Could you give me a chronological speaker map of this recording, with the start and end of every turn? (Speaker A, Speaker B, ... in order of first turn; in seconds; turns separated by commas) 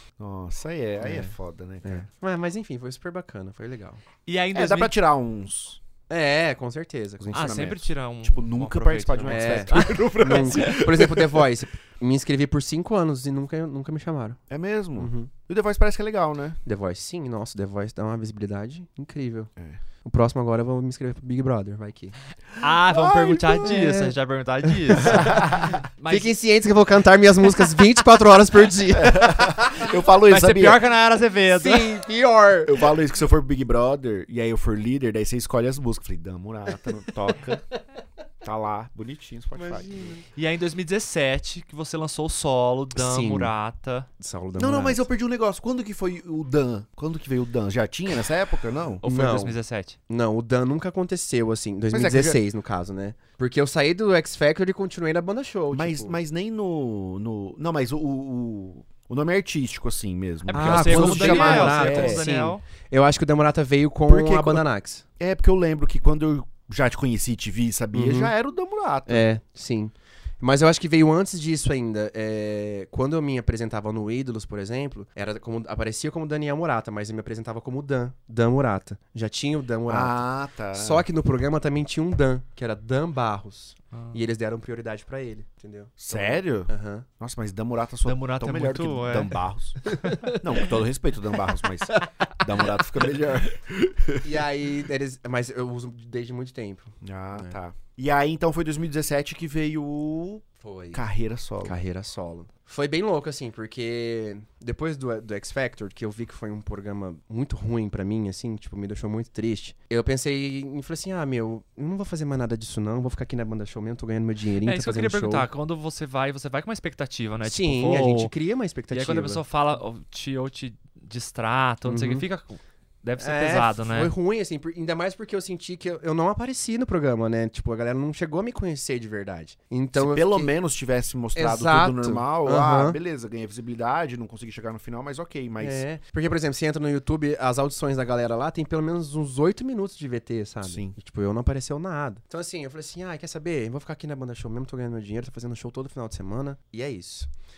Speaker A: 0.2-2.1, Speaker B: 1.0-4.0, Speaker C: 4.3-5.0, Speaker A: 4.5-5.8, Speaker B: 6.1-7.7, Speaker A: 7.3-11.4, Speaker C: 7.3-10.8, Speaker B: 9.3-14.4, Speaker A: 14.5-16.6, Speaker B: 15.0-15.3, Speaker B: 16.6-19.5, Speaker B: 20.0-22.1, Speaker C: 22.6-26.4, Speaker A: 22.8-23.8, Speaker B: 23.6-24.1, Speaker B: 24.6-29.9, Speaker A: 25.0-25.8, Speaker A: 28.9-30.8, Speaker C: 30.3-32.0, Speaker B: 31.5-33.0, Speaker A: 32.6-37.6, Speaker A: 38.4-40.2, Speaker B: 39.6-40.2, Speaker C: 40.3-44.1, Speaker B: 42.9-43.5, Speaker B: 44.2-45.1, Speaker A: 44.6-49.0, Speaker C: 49.0-50.0, Speaker B: 49.0-49.6, Speaker B: 50.1-56.2, Speaker A: 51.9-52.4, Speaker A: 55.7-62.3, Speaker C: 60.5-62.6, Speaker B: 60.5-65.0, Speaker A: 64.1-64.6, Speaker A: 65.2-69.3, Speaker B: 67.9-68.3, Speaker B: 69.1-80.2, Speaker A: 79.9-81.0, Speaker B: 80.7-87.1, Speaker C: 83.9-84.2, Speaker A: 86.0-94.3, Speaker C: 88.0-89.4, Speaker B: 94.2-97.6, Speaker A: 97.0-101.8, Speaker B: 100.6-101.0, Speaker B: 101.6-115.5, Speaker C: 114.6-118.3, Speaker B: 117.4-119.4, Speaker C: 118.9-124.1, Speaker B: 121.9-122.3, Speaker B: 123.2-130.5, Speaker A: 129.9-135.8, Speaker B: 131.4-133.0, Speaker B: 135.6-147.3, Speaker A: 140.6-141.0